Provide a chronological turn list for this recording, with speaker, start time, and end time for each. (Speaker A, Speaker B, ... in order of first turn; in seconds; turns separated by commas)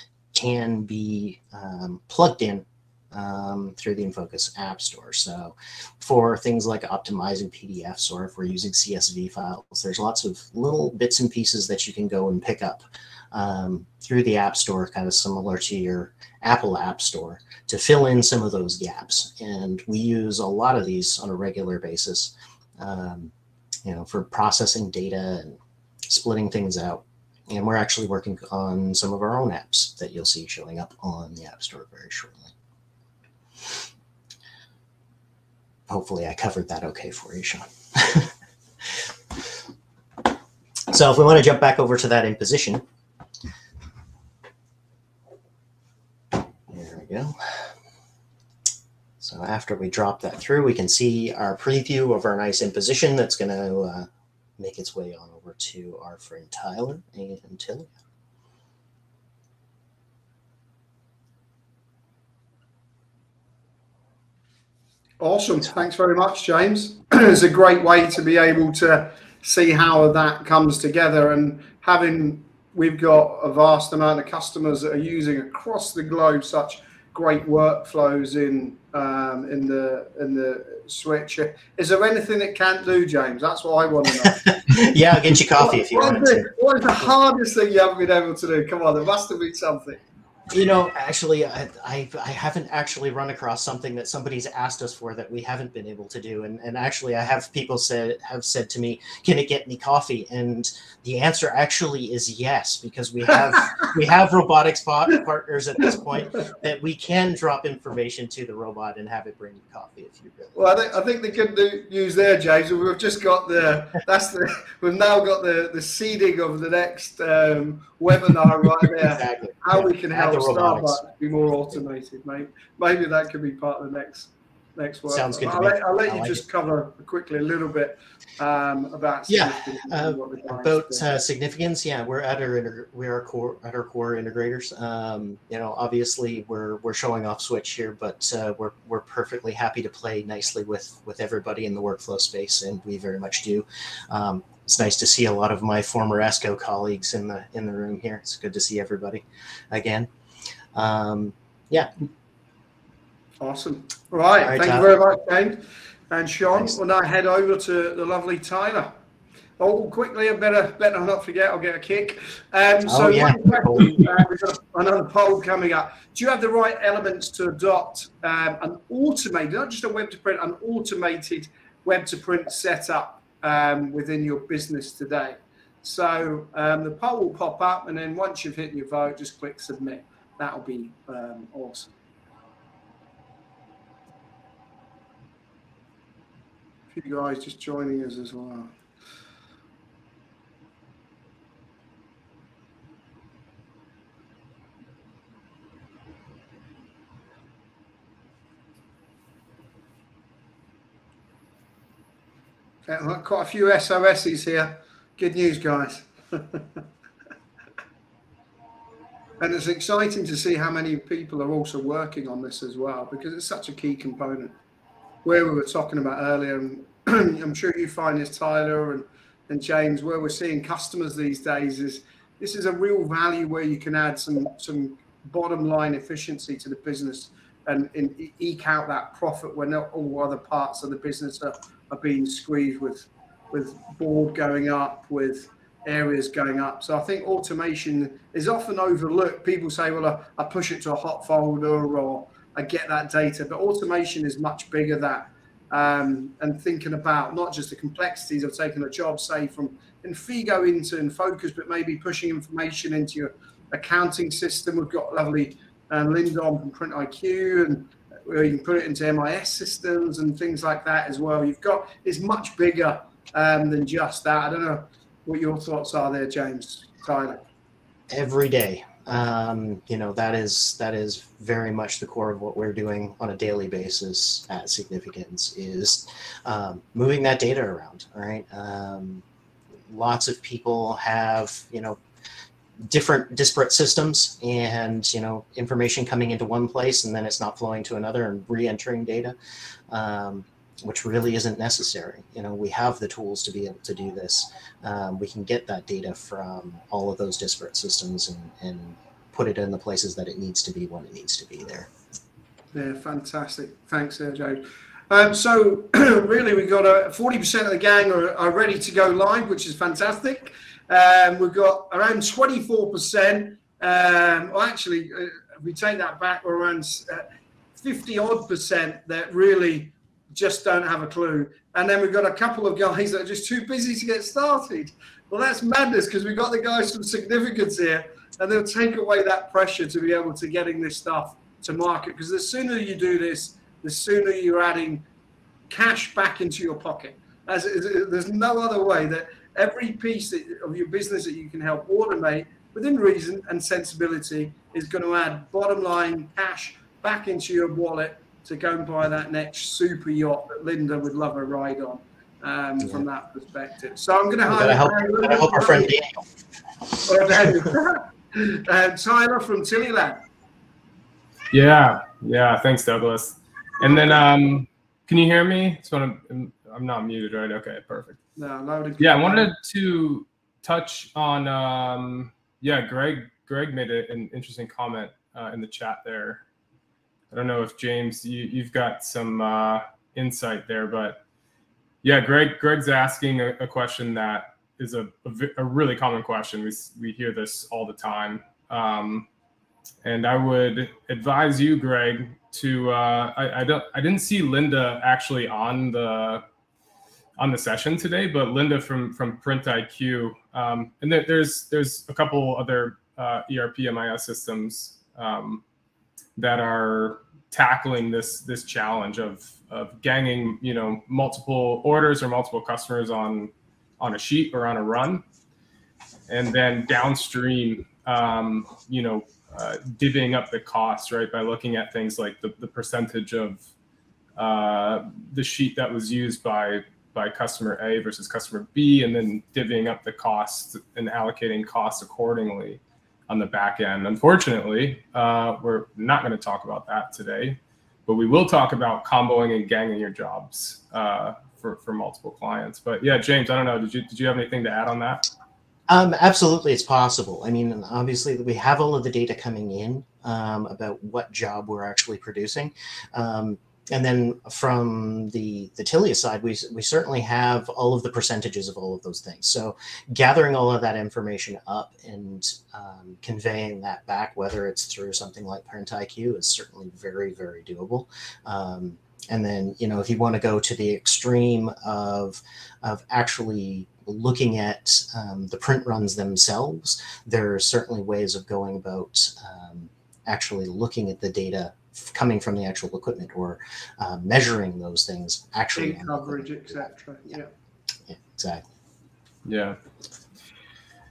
Speaker A: 0.3-23.3, Speaker A: 23.9-32.5, Speaker A: 35.9-38.3, Speaker A: 40.9-42.8, Speaker A: 46.7-47.7, Speaker A: 49.2-57.9, Speaker B: 65.2-84.8, Speaker A: 84.2-86.5, Speaker B: 85.6-90.0, Speaker A: 90.5-110.6, Speaker B: 110.5-131.1, Speaker A: 119.0-121.0, Speaker A: 125.1-126.4, Speaker A: 129.3-150.1, Speaker A: 150.7-151.9, Speaker B: 153.4-158.9, Speaker A: 154.4-154.9, Speaker B: 159.6-181.9, Speaker A: 162.8-164.0, Speaker B: 186.9-188.7, Speaker B: 202.9-206.8, Speaker B: 209.4-214.6, Speaker B: 215.2-267.4, Speaker A: 268.1-279.2, Speaker A: 279.9-282.0, Speaker A: 282.9-289.4, Speaker A: 289.9-301.9, Speaker B: 302.7-317.2, Speaker B: 317.8-335.1, Speaker B: 335.7-355.9, Speaker A: 352.8-353.1, Speaker A: 354.5-356.2, Speaker B: 357.1-360.2, Speaker C: 361.5-368.2, Speaker B: 363.8-364.2, Speaker B: 368.4-369.5, Speaker C: 369.0-376.4, Speaker C: 377.3-381.2, Speaker C: 382.0-389.3, Speaker C: 390.0-396.4, Speaker C: 397.4-405.6, Speaker C: 406.4-415.2, Speaker C: 416.3-423.6, Speaker C: 424.4-445.3, Speaker A: 445.9-487.3, Speaker B: 485.8-487.5, Speaker A: 488.1-488.7, Speaker C: 489.5-489.8